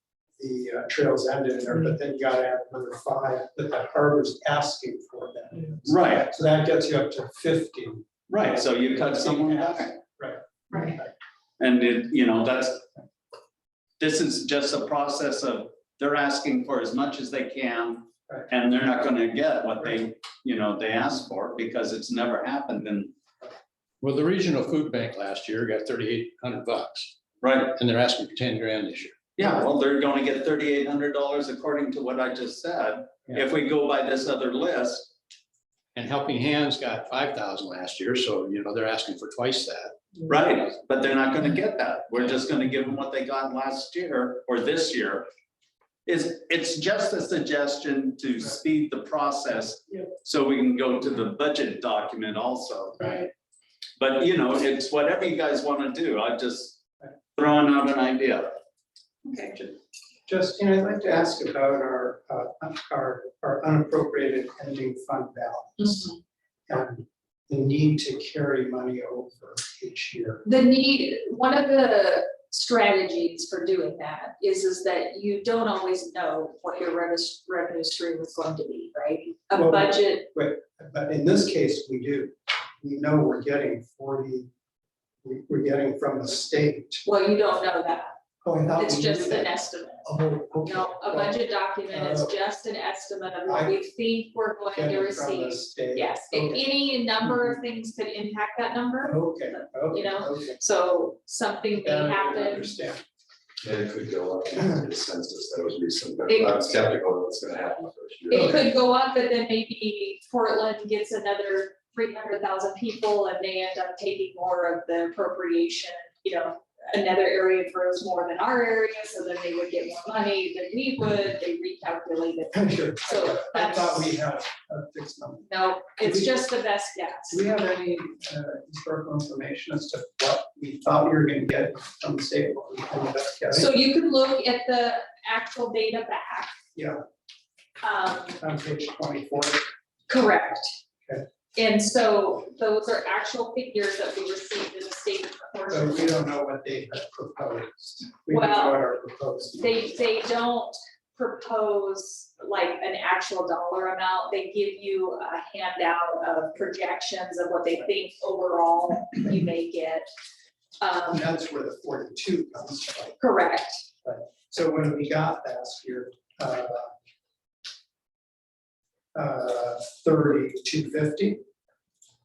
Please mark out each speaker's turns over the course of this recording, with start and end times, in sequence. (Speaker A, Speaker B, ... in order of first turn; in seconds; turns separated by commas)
Speaker A: 0.4-11.1, Speaker B: 5.9-6.3, Speaker B: 8.3-9.9, Speaker B: 11.6-12.9, Speaker B: 14.0-23.1, Speaker C: 24.0-29.2, Speaker B: 27.4-27.7, Speaker B: 29.4-35.1, Speaker C: 36.0-40.1, Speaker B: 40.3-45.3, Speaker B: 46.1-53.2, Speaker B: 54.0-56.8, Speaker B: 57.4-58.5, Speaker D: 59.2-59.7, Speaker A: 60.3-66.1, Speaker D: 65.8-66.2, Speaker A: 66.7-70.4, Speaker D: 70.4-80.3, Speaker A: 79.5-84.5, Speaker A: 85.2-87.0, Speaker D: 87.0-88.2, Speaker A: 88.4-89.5, Speaker D: 88.7-90.1, Speaker A: 90.0-91.4, Speaker D: 90.6-102.7, Speaker A: 91.9-92.3, Speaker A: 93.5-93.8, Speaker A: 94.7-96.7, Speaker A: 97.2-97.5, Speaker A: 99.0-100.6, Speaker A: 101.8-103.0, Speaker E: 103.6-108.5, Speaker D: 106.3-106.8, Speaker D: 108.3-124.1, Speaker A: 108.3-108.6, Speaker A: 122.5-125.5, Speaker D: 125.5-127.4, Speaker A: 126.0-126.4, Speaker A: 127.3-133.7, Speaker D: 133.5-136.5, Speaker A: 136.7-137.0, Speaker D: 137.8-138.4, Speaker A: 138.4-139.7, Speaker D: 140.1-140.7, Speaker D: 141.6-146.2, Speaker A: 145.7-149.7, Speaker D: 148.3-148.8, Speaker D: 149.6-160.1, Speaker D: 160.8-161.3, Speaker A: 161.1-163.2, Speaker D: 163.2-163.8, Speaker A: 164.0-166.9, Speaker A: 169.1-171.4